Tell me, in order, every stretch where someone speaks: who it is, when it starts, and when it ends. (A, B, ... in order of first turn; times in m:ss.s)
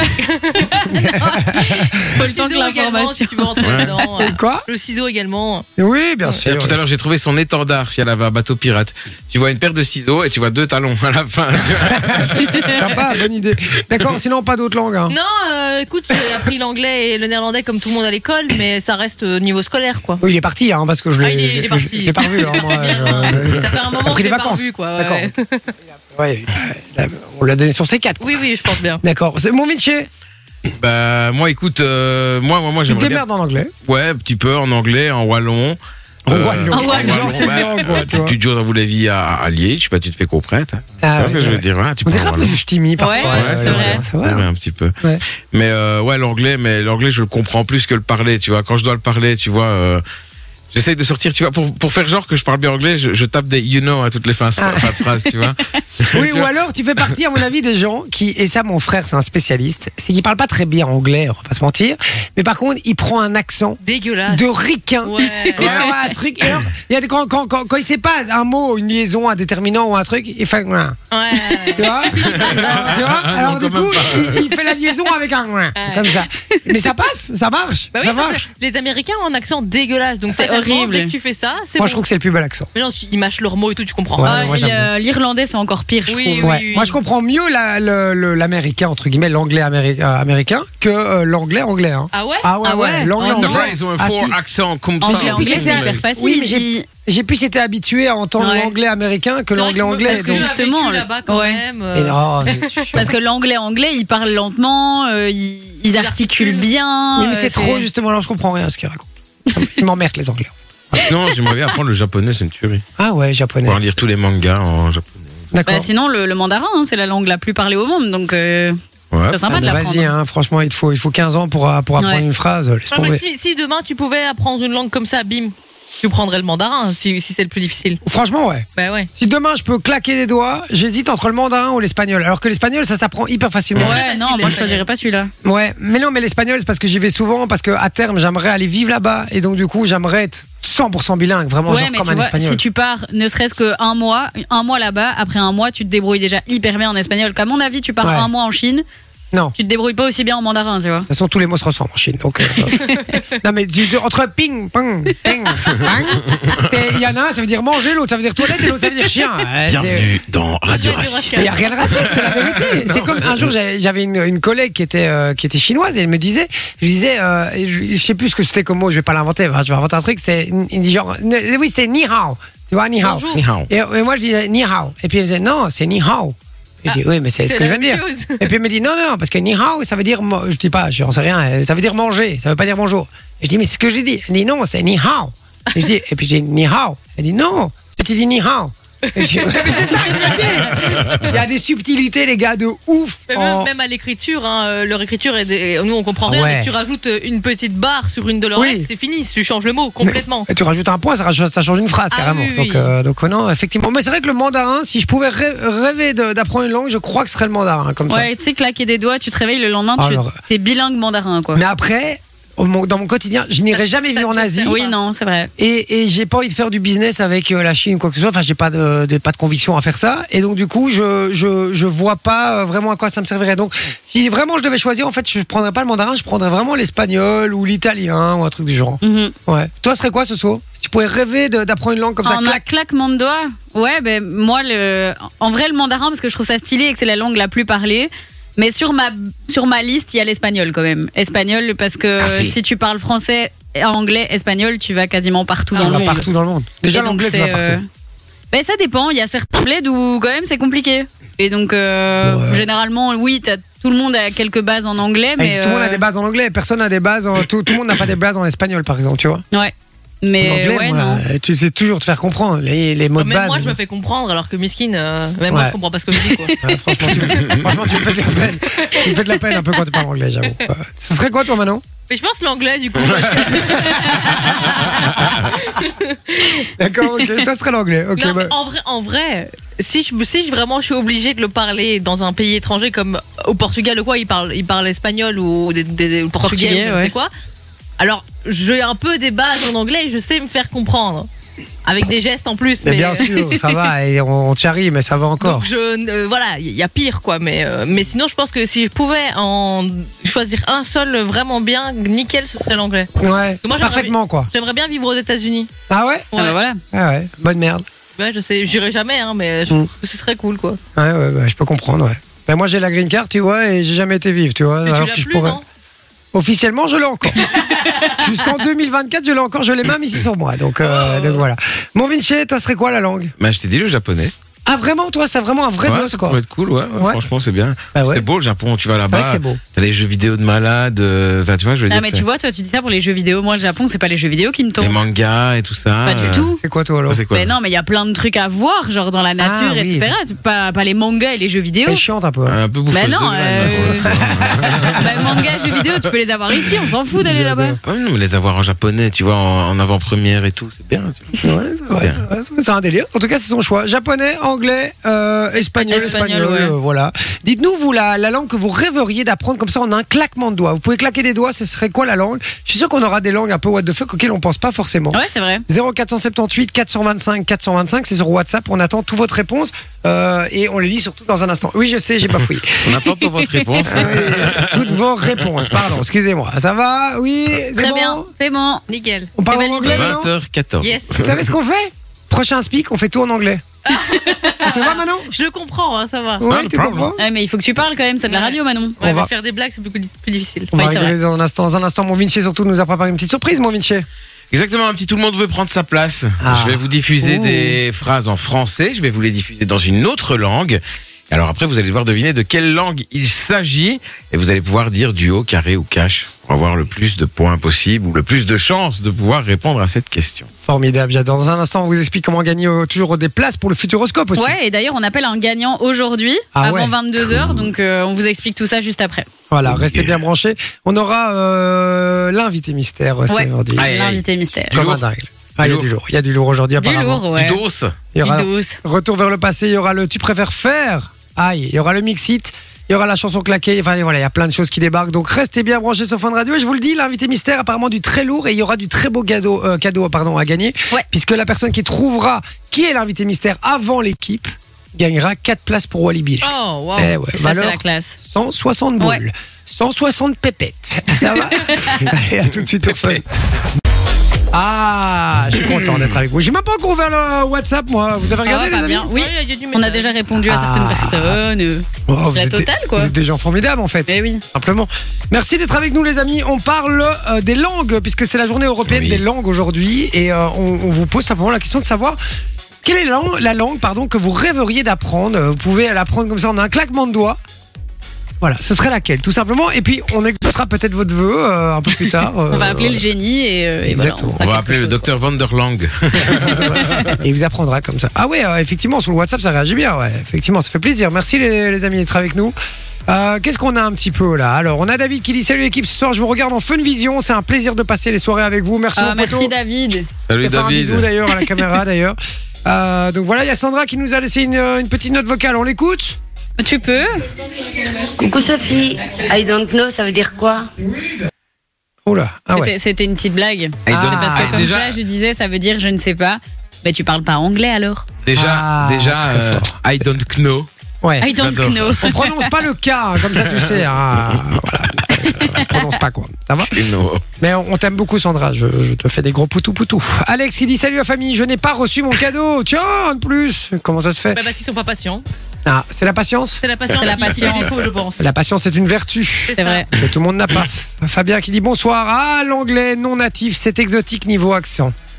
0:00.2-0:00.8 A
0:00.8-0:03.8 B
0:00.9-0:02.0 C
0:02.1-0:05.7 A
0:03.6-0:03.9 D
0:04.2-0:04.6 C
0:05.8-0:06.8 C
0:06.4-0:12.7 D
0:12.1-0:15.2 C
0:12.4-0:12.8 B
0:15.1-0:20.2 A
0:20.2-0:25.3 C
0:21.2-0:25.7 A
0:26.2-0:28.4 C
0:28.2-0:29.0 A
0:29.0-0:30.1 C
0:30.8-0:33.2 D
0:32.9-0:33.7 C
0:33.8-0:42.6 D
0:36.3-0:38.4 C
0:36.7-0:38.1 B
0:41.0-0:44.5 C
0:43.0-0:44.0 B
0:43.3-0:45.0 D
0:45.5-0:50.0 D
0:50.7-0:56.5 D
0:54.6-0:55.0 C
0:56.1-1:11.0 C
1:03.8-1:06.0 A
1:05.6-1:06.0 D
1:11.1-1:13.0 A
1:11.7-1:18.4 C
1:12.2-1:14.5 D
1:15.8-1:16.2 A
1:17.9-1:22.0 A
1:20.3-1:21.1 B
1:21.8-1:22.7 C
1:22.7-1:24.6 A
1:24.1-1:24.9 C
1:24.2-1:26.6 B
1:26.1-1:27.0 A
1:26.4-1:34.4 C
1:32.1-1:32.5 A
1:32.6-1:33.7 B
1:33.2-1:36.0 D
1:35.0-1:36.9 B
1:35.0-1:40.5 C
1:38.4-1:38.7 B
1:39.5-1:42.9 A
1:40.1-1:41.6 B
1:41.9-1:43.1 C
1:43.0-1:47.8 B
1:45.9-1:46.7 A
1:47.2-1:51.1 C
1:51.0-1:52.8 D
1:53.0-1:53.8 C
1:53.6-1:55.4 D
1:55.5-1:55.9 C
1:55.7-2:00.1 B
1:59.1-1:59.8 D
1:59.5-2:03.2 C
2:02.0-2:02.2 B
2:02.9-2:08.0 A
2:08.0-2:14.0 C
2:08.8-2:09.1 A
2:13.8-2:14.8 A
2:13.8-2:15.3 B
2:15.4-2:22.6 C
2:21.7-2:28.8 B
2:28.0-2:28.3 C
2:29.6-2:31.1 B
2:31.1-2:32.9 C
2:33.4-2:40.1 C
2:39.7-2:43.5 D
2:40.7-2:42.1 A
2:41.4-3:13.7 C
2:53.0-2:53.5 A
2:53.3-2:53.7 D
2:56.9-2:58.5 A
3:09.1-3:10.4 A
3:13.3-3:20.5 A
3:16.3-3:16.7 C
3:18.6-3:18.9 C
3:20.0-3:28.3 C
3:22.1-3:22.9 A
3:28.1-3:31.6 B
3:30.0-3:30.4 C
3:31.6-3:34.8 C
3:33.7-3:35.0 A
3:34.7-3:35.5 B
3:35.6-3:52.6 C
3:49.0-3:49.3 B
3:52.2-4:06.2 B
4:02.2-4:02.5 D
4:05.8-4:07.8 C
4:05.8-4:06.1 A
4:06.9-4:07.8 B
4:08.5-4:16.0 B
4:12.2-4:12.6 C
4:15.4-4:19.4 C
4:19.5-4:21.2 B
4:20.4-4:23.8 C
4:23.2-4:26.6 A
4:25.5-4:25.8 C
4:26.6-4:31.8 C
4:27.3-4:28.0 D
4:28.8-4:29.1 A
4:32.1-4:36.7 A
4:33.2-4:33.6 D
4:33.7-4:34.2 C
4:36.8-4:38.5 C
4:38.2-4:47.3 A
4:46.4-4:47.1 B
4:48.0-4:51.3 A
4:51.8-4:53.3 A
4:52.8-4:55.7 C
4:55.4-5:03.1 A
5:03.2-5:04.5 C
5:03.6-5:05.7 A
5:05.9-5:06.3 C
5:06.3-5:06.6 A
5:06.4-5:06.8 B
5:06.9-5:07.8 C
5:08.2-5:10.8 A
5:11.0-5:15.6 C
5:14.8-5:15.6 A
5:16.3-5:17.5 C
5:18.1-5:23.3 C
5:20.8-5:21.4 A
5:23.4-5:24.3 D
5:24.6-5:26.4 C
5:25.8-5:32.2 D
5:27.9-5:28.3 C
5:29.1-5:29.6 C
5:31.9-5:35.0 B
5:34.8-5:36.5 D
5:36.0-5:36.6 B
5:36.6-5:37.2 C
5:37.1-5:37.6 D
5:37.3-5:42.0 B
5:39.4-5:40.1 C
5:41.9-5:42.6 C
5:42.5-5:45.6 D
5:42.9-5:44.1 B
5:44.1-5:45.1 C
5:44.9-5:47.8 B
5:47.2-5:47.8 C
5:47.8-5:51.4 D
5:51.4-6:13.0 C
5:52.0-5:52.2 D
5:55.8-5:56.8 B
6:05.1-6:05.6 B
6:12.8-6:14.9 D
6:13.4-6:13.9 B
6:13.8-6:18.3 C
6:17.8-6:18.8 B
6:18.9-6:20.2 A
6:19.4-6:20.3 C
6:19.8-6:21.5 D
6:20.8-6:21.2 A
6:21.1-6:23.6 C
6:23.9-6:26.5 A
6:24.0-6:24.5 B
6:24.6-6:25.3 C
6:26.4-6:27.2 C
6:26.4-6:27.1 D
6:27.2-6:29.0 B
6:28.3-6:30.7 A
6:29.0-6:29.3 C
6:30.7-6:34.1 C
6:30.8-6:31.2 B
6:34.5-6:50.5 D
6:36.4-6:37.7 C
6:50.6-6:54.6 C
6:54.4-6:59.3 B
6:56.6-6:57.0 C
6:57.2-6:57.6 D
6:59.5-7:03.9 C
6:59.7-7:00.2 D
7:03.3-7:04.8 B
7:03.8-7:05.0 D
7:04.7-7:07.3 C
7:05.6-7:05.9 D
7:06.8-7:07.6 B
7:07.3-7:08.0 D
7:08.1-7:33.2 C
7:08.2-7:08.8 B
7:26.4-7:27.2 A
7:27.3-7:28.2 B
7:31.3-7:32.1 B
7:34.5-7:39.1 C
7:38.4-7:43.1 B
7:39.0-7:40.1 A
7:40.4-7:41.4 C
7:42.1-7:52.2 C
7:44.1-7:44.4 B
7:48.9-7:49.2 D
7:52.8-7:57.4 C
7:58.4-8:03.1 C
8:02.5-8:05.1 B
8:03.8-8:04.4 C
8:04.4-8:07.2 D
8:07.2-8:12.6 C
8:13.1-8:19.5 C
8:19.0-8:20.1 B
8:20.3-8:21.1 D
8:20.4-8:26.2 C
8:26.6-8:27.2 B
8:27.8-8:30.7 E
8:32.1-8:32.7 C
8:32.6-8:38.0 B
8:33.9-8:35.0 D
8:33.9-8:34.7 C
8:38.2-8:40.7 D
8:38.4-8:39.8 C
8:41.0-8:41.3 C
8:41.2-8:42.6 B
8:41.3-8:42.2 D
8:42.0-8:46.9 C
8:43.4-8:44.4 D
8:45.2-8:45.8 B
8:46.6-8:47.2 D
8:47.4-8:54.4 C
8:54.3-8:55.2 A
8:55.7-8:56.6 C
8:56.6-8:58.3 A
8:56.9-8:57.8 B
8:58.2-9:04.9 C
8:59.5-8:59.8 A
8:59.6-8:59.9 B